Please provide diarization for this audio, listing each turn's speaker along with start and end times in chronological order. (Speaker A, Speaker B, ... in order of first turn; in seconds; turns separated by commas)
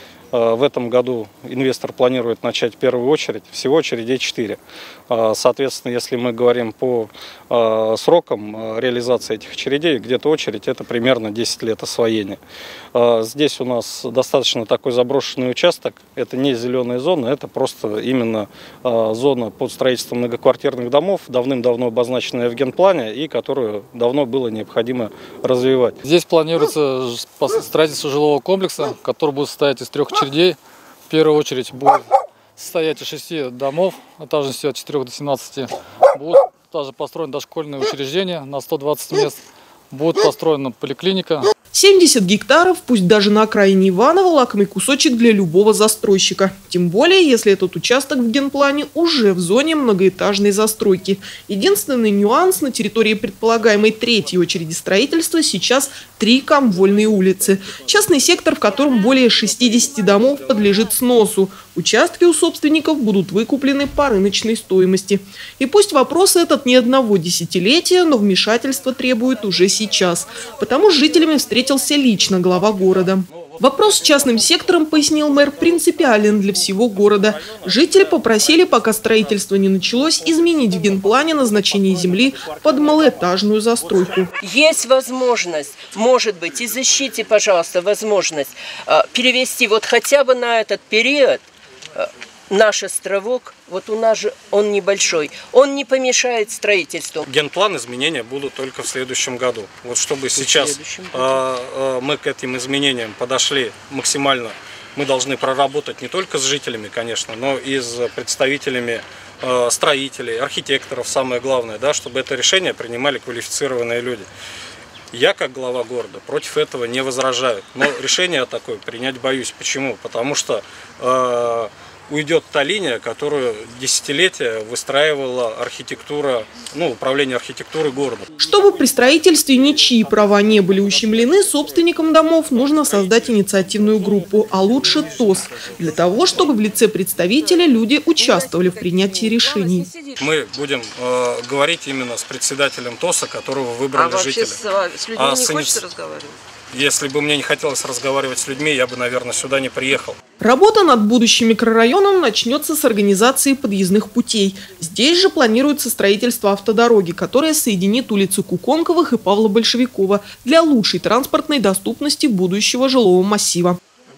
Speaker A: 0.3-12.4, Speaker A: 12.9-25.9, Speaker B: 26.0-39.4, Speaker B: 39.9-41.5, Speaker C: 41.7-84.3, Speaker D: 84.4-97.3, Speaker A: 97.2-114.3, Speaker D: 100.3-101.4, Speaker A: 115.1-128.3, Speaker C: 128.4-139.9, Speaker D: 138.2-140.2, Speaker A: 140.2-144.6, Speaker D: 143.9-146.4, Speaker A: 145.1-145.8, Speaker A: 146.7-150.2, Speaker C: 150.4-163.8